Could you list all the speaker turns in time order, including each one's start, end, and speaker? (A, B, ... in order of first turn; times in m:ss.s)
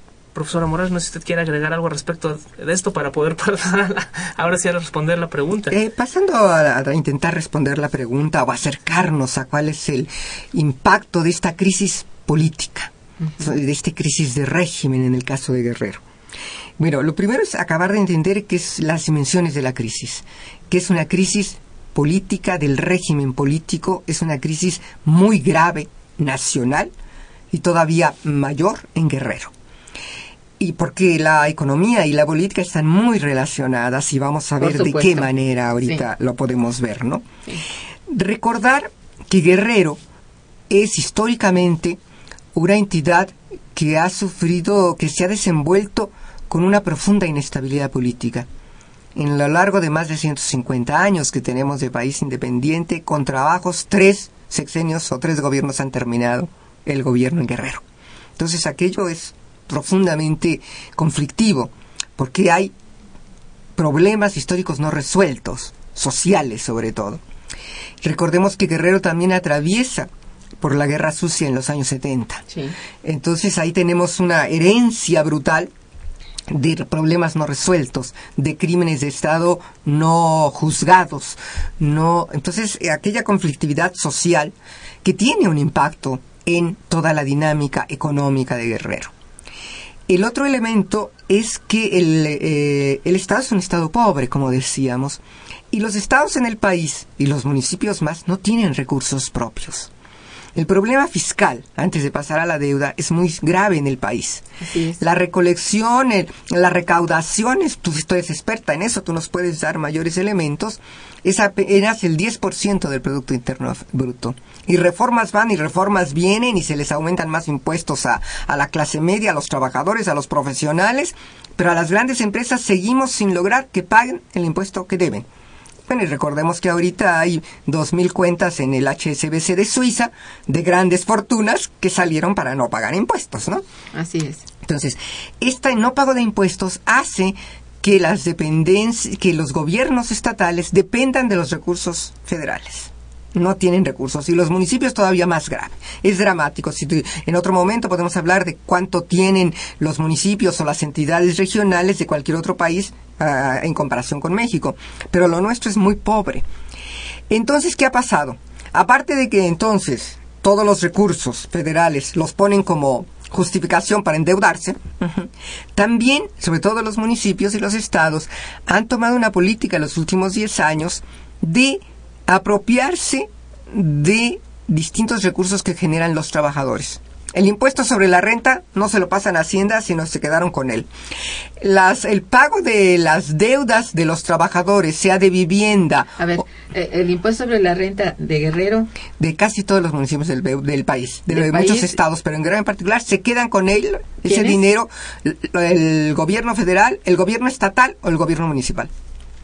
0:00.3-0:05.8 A
0:05.7-0:16.0 B
0:16.8-0:26.9 B
0:27.5-0:29.5 B
0:30.6-0:37.3 B
0:34.6-0:35.3 C
0:38.1-0:40.0 B
0:40.7-0:42.0 B
0:42.5-0:48.5 B
0:49.2-0:57.8 B
0:58.4-1:02.7 B
1:03.8-1:07.2 B
1:08.0-1:10.1 B
1:10.6-1:12.4 B
1:12.5-1:12.8 C
1:13.0-1:15.7 B
1:16.5-1:29.1 B
1:30.1-1:35.2 B
1:35.7-1:39.9 B
1:40.6-1:44.5 B
1:44.6-1:45.0 C
1:45.0-2:05.3 B
2:05.9-2:13.6 B
2:13.9-2:14.5 C
2:14.6-2:36.4 B
2:37.3-3:00.9 B
3:01.6-3:06.4 B
3:06.2-3:08.9 C
3:09.2-3:18.9 B
3:11.3-3:12.0 C
3:14.2-3:14.6 C